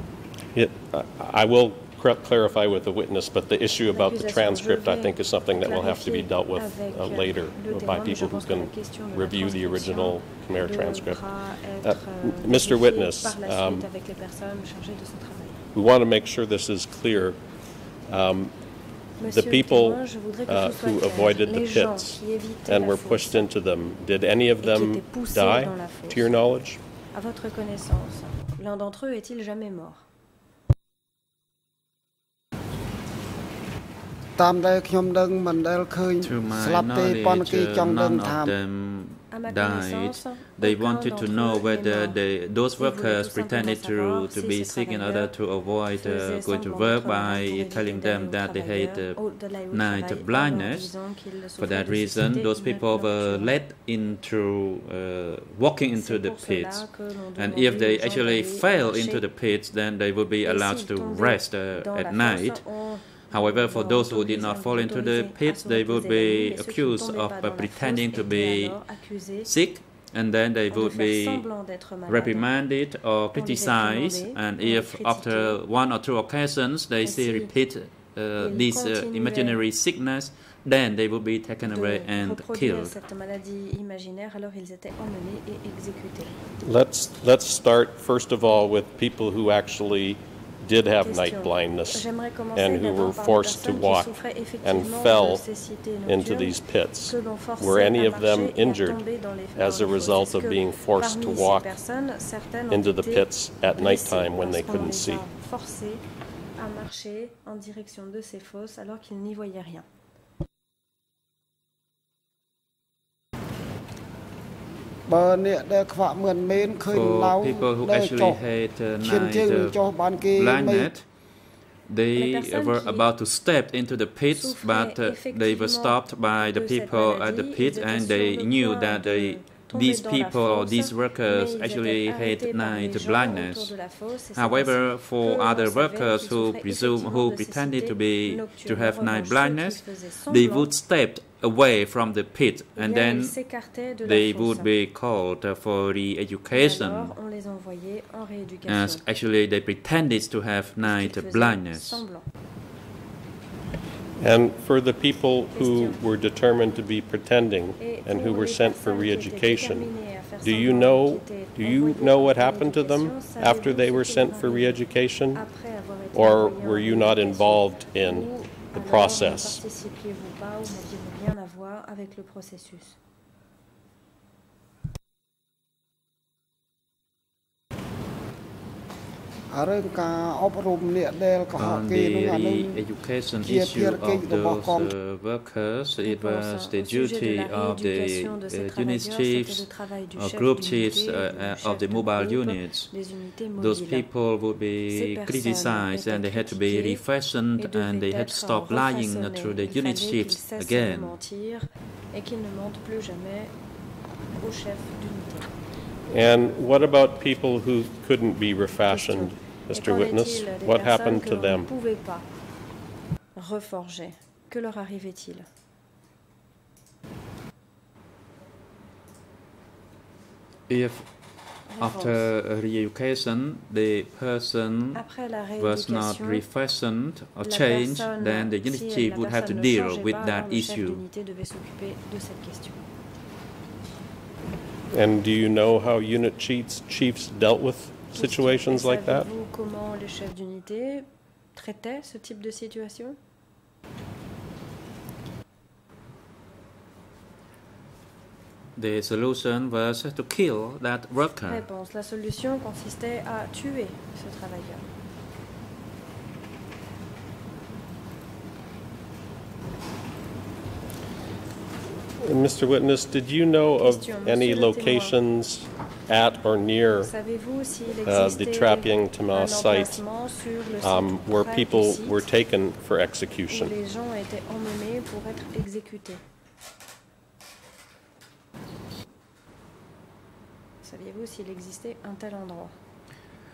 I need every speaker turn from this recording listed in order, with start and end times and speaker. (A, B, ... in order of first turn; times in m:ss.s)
0:00.5-0:13.9 A
0:03.9-0:15.6 B
0:15.7-0:18.6 A
0:19.2-0:23.5 B
0:19.2-0:26.8 A
0:24.6-0:26.3 B
0:27.1-0:30.0 B
0:34.4-0:38.5 C
0:36.2-0:51.0 D
0:39.3-0:42.2 B
0:42.8-0:45.3 B
0:46.0-0:53.6 B
0:51.6-1:11.5 D
0:56.0-0:59.2 B
1:00.4-1:09.5 B
1:10.7-1:12.5 B
1:12.0-1:23.0 D
1:13.3-1:15.6 B
1:17.0-1:17.6 B
1:18.1-1:19.6 B
1:21.7-1:26.4 B
1:26.6-1:35.4 A
1:31.0-1:46.0 B
1:36.0-1:39.0 A
1:39.5-1:41.8 A
1:42.7-1:45.2 A
1:46.6-1:49.9 B
1:55.1-1:58.4 C
1:56.7-2:01.1 D
1:59.0-2:00.9 C
2:01.8-2:23.4 D
2:02.2-2:03.1 B
2:04.3-2:20.7 B
2:22.8-2:24.7 B
2:24.0-2:27.1 D
2:26.5-2:29.0 B
2:28.6-2:32.0 D
2:30.8-2:32.3 B
2:34.2-2:39.9 A
2:35.5-2:36.0 B
2:37.8-2:53.0 B
2:40.4-2:45.4 A
2:46.1-2:49.6 A
2:59.5-3:02.8 C
3:01.6-3:12.9 D
3:03.4-3:04.9 C
3:06.0-3:14.1 B
3:13.6-3:21.2 D
3:14.9-3:17.0 B
3:17.6-3:23.5 B
3:24.4-3:25.5 B
3:26.1-3:31.7 A
3:28.9-3:32.3 B
3:33.4-3:35.4 B
3:40.7-3:45.0 D
3:41.7-3:42.3 B
3:44.9-3:46.4 B
3:45.6-3:51.0 D
3:47.4-3:52.8 B
3:54.9-3:59.3 A
3:58.1-4:03.2 B
4:08.8-4:11.6 D
4:11.4-4:14.9 B
4:22.2-4:27.1 A
4:23.8-4:25.2 B
4:27.0-4:32.2 B
4:28.1-4:30.0 A
4:30.8-4:33.7 A
4:33.5-4:36.2 B
4:40.8-4:42.7 B